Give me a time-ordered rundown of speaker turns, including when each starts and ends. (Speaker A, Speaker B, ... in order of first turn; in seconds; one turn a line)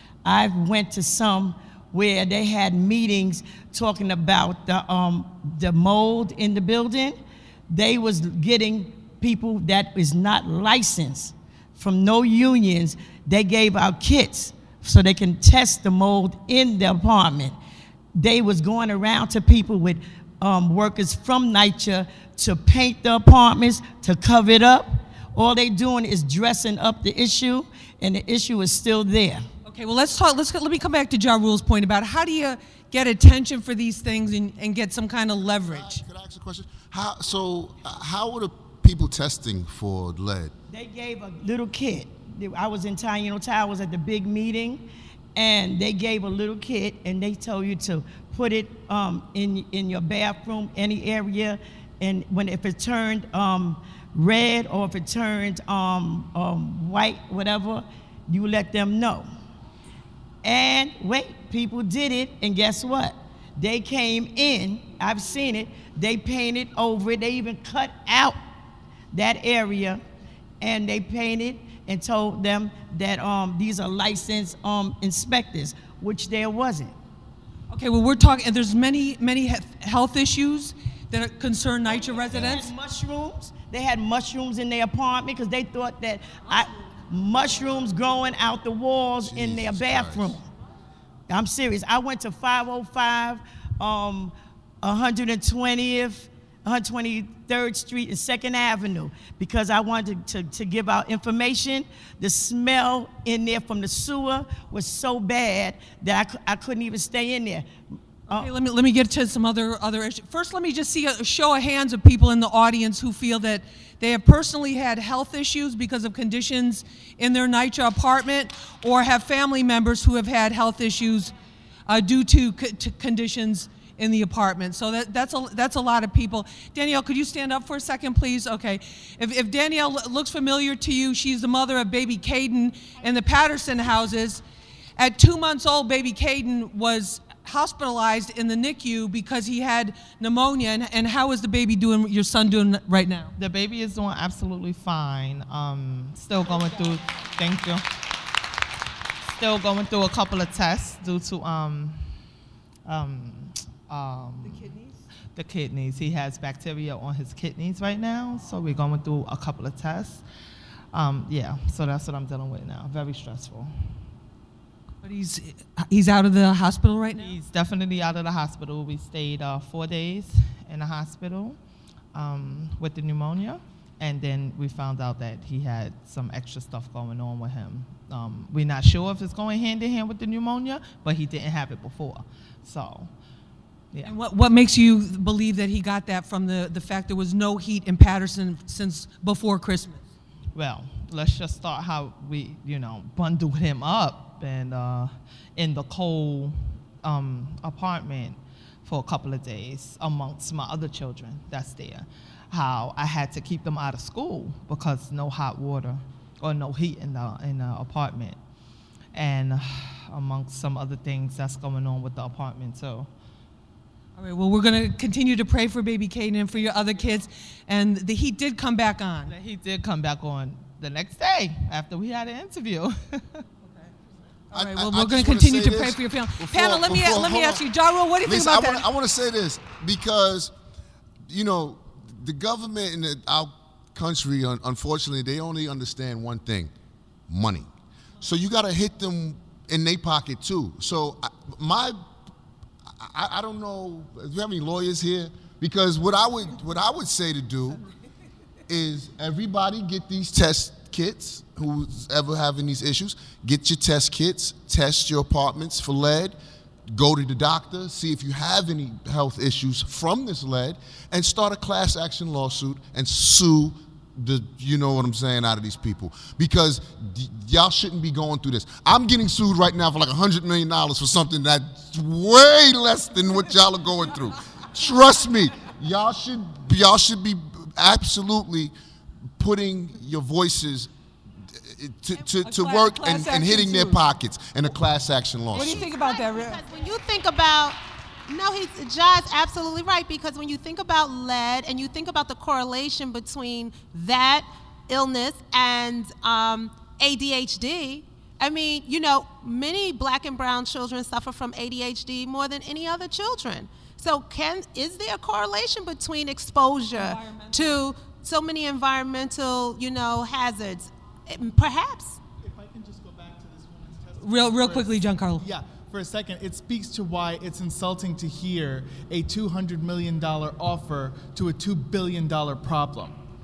Speaker A: 0.2-7.2
Speaker A: 7.7-17.6
Speaker A: 18.2-29.5
Speaker B: 29.6-36.0
Speaker C: 35.7-40.5
Speaker A: 40.7-44.9
Speaker A: 45.4-59.3
Speaker A: 60.4-68.4
Speaker A: 69.1-70.0
Speaker A: 70.6-77.0
Speaker B: 77.7-82.7
Speaker A: 81.8-90.5
Speaker C: 89.2-90.4
Speaker A: 91.3-107.7
Speaker B: 108.3-121.3
Speaker B: 121.9-134.4
Speaker B: 135.0-143.3
Speaker D: 143.4-147.8
Speaker D: 149.3-152.1
Speaker D: 152.9-154.8
Speaker D: 155.3-160.2
Speaker D: 160.9-163.7
Speaker B: 165.0-167.3
Speaker D: 167.2-171.6
Speaker D: 172.1-183.1
Speaker B: 184.1-190.0
Speaker D: 190.5-208.4
Speaker D: 209.1-213.1
Speaker B: 214.2-219.3
Speaker D: 219.3-223.4
Speaker B: 224.5-228.9
Speaker C: 224.5-227.6
Speaker C: 228.2-230.5
Speaker C: 231.3-236.7
Speaker C: 237.3-237.7
Speaker C: 238.2-242.0
Speaker C: 243.0-247.8
Speaker C: 248.7-256.4
Speaker C: 256.9-278.7
Speaker C: 279.4-280.9
Speaker C: 281.5-285.9
Speaker B: 282.4-284.0
Speaker E: 285.5-312.2
Speaker B: 285.5-286.6
Speaker B: 306.9-307.8
Speaker F: 312.4-323.1
Speaker B: 314.2-315.5